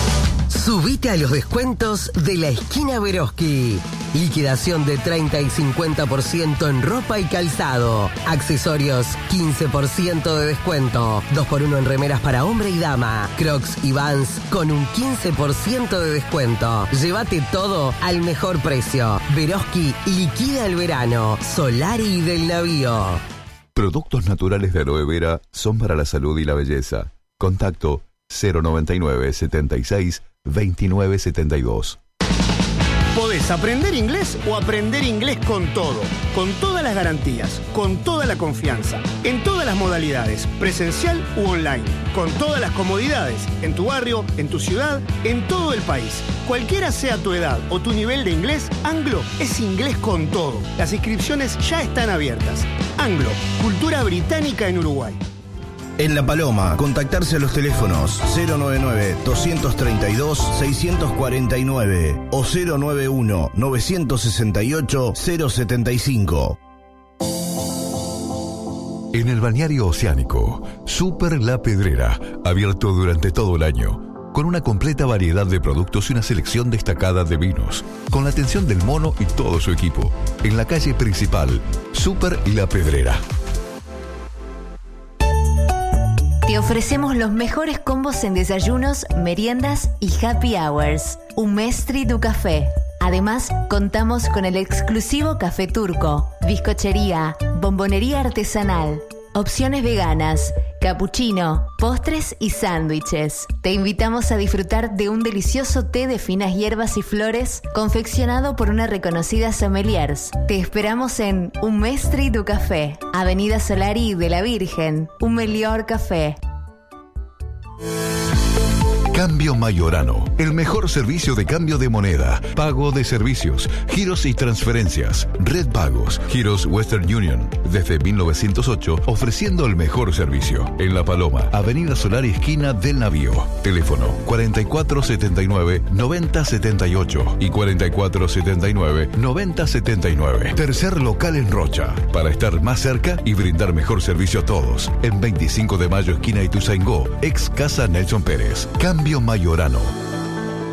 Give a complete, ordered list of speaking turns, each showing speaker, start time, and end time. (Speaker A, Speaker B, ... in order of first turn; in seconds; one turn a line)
Speaker A: 0.5-23.2
Speaker B: 23.7-32.0
Speaker C: 33.1-55.2
Speaker D: 56.0-66.6
Speaker B: 69.1-83.2
Speaker E: 86.5-116.4
Speaker B: 119.1-149.9